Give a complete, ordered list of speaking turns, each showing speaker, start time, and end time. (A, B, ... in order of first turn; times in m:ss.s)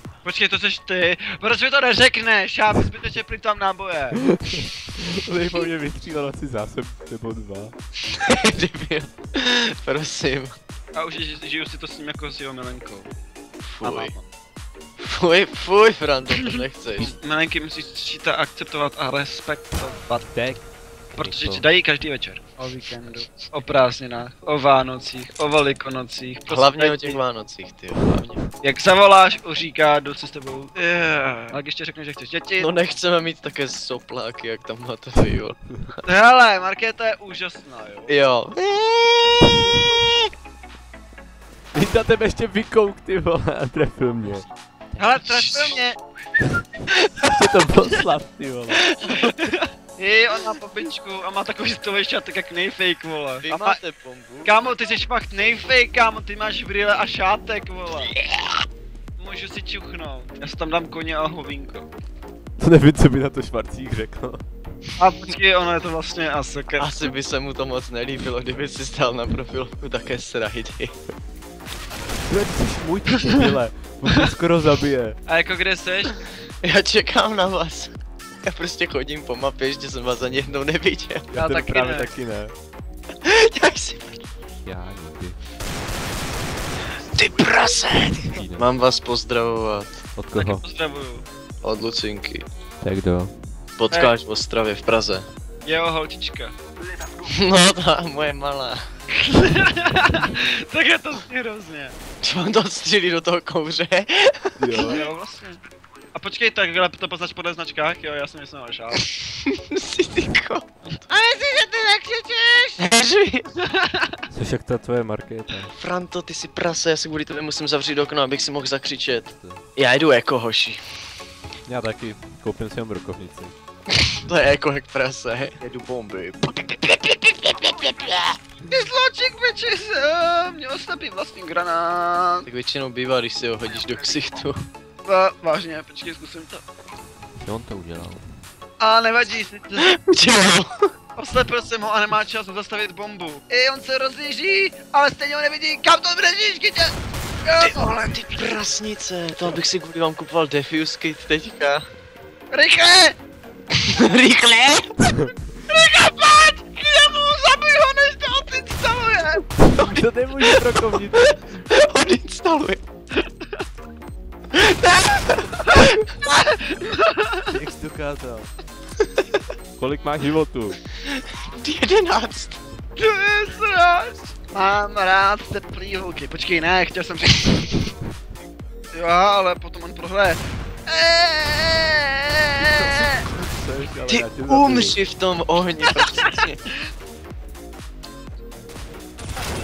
0:00.2-0:04.2 A
0:04.5-0:07.7 B
0:08.0-0:10.5 C
0:10.9-0:13.1 A
0:13.6-0:14.1 C
0:13.8-0:14.2 A
0:15.0-0:17.1 C
0:17.0-0:20.3 A
0:20.3-0:21.6 B
0:21.1-0:27.2 A
0:26.5-0:28.4 C
0:28.6-0:32.7 A
0:32.6-0:36.0 C
0:36.0-0:38.1 A
0:38.1-0:40.3 C
0:41.7-0:45.1 B
0:45.0-0:46.0 A
0:45.2-0:45.8 C
0:47.0-0:47.3 C
0:47.2-0:48.9 B
0:48.8-0:49.3 C
0:49.1-0:53.8 A
0:53.4-0:54.6 C
0:54.4-0:58.1 A
0:58.2-0:58.5 C
0:59.2-1:01.9 A
1:02.6-1:04.4 B
1:05.0-1:07.1 A
1:06.8-1:10.9 C
1:12.3-1:15.2 B
1:15.3-1:16.2 A
1:16.6-1:21.3 C
1:21.3-1:22.5 B
1:21.3-1:22.1 A
1:23.2-1:24.2 C
1:24.6-1:25.4 B
1:27.0-1:30.0 C
1:28.3-1:28.6 B
1:30.1-1:30.6 B
1:30.3-1:31.2 A
1:31.6-1:32.4 C
1:32.8-1:33.3 B
1:33.8-1:35.2 C
1:35.6-1:36.5 A
1:37.2-1:38.8 C
1:39.2-1:42.0 A
1:42.2-1:45.0 C
1:44.6-1:45.0 B
1:44.8-1:45.6 A
1:46.1-1:49.1 A
1:49.1-1:51.1 C
1:51.1-1:52.8 A
1:52.8-1:53.5 C
1:53.7-1:54.2 A
1:54.3-1:55.7 B
1:55.7-2:00.8 C
1:59.4-1:59.6 B
2:01.6-2:03.5 B
2:03.9-2:08.4 C
2:08.7-2:12.4 A
2:12.4-2:14.6 C
2:15.0-2:16.6 A
2:17.4-2:18.3 B
2:18.8-2:19.9 A
2:19.8-2:20.9 C
2:21.2-2:27.9 A
2:27.6-2:31.8 C
2:32.5-2:33.2 A
2:33.8-2:35.0 C
2:35.7-2:39.5 A
2:39.7-2:41.4 B
2:39.7-2:40.6 C
2:41.2-2:42.8 C
2:44.5-2:46.1 C
2:45.7-2:47.5 A
2:47.5-2:48.5 B
2:49.8-2:50.8 B
2:50.9-2:52.6 C
2:53.0-2:57.6 A
2:58.9-3:03.2 A
3:02.7-3:05.0 B
3:04.1-3:06.6 C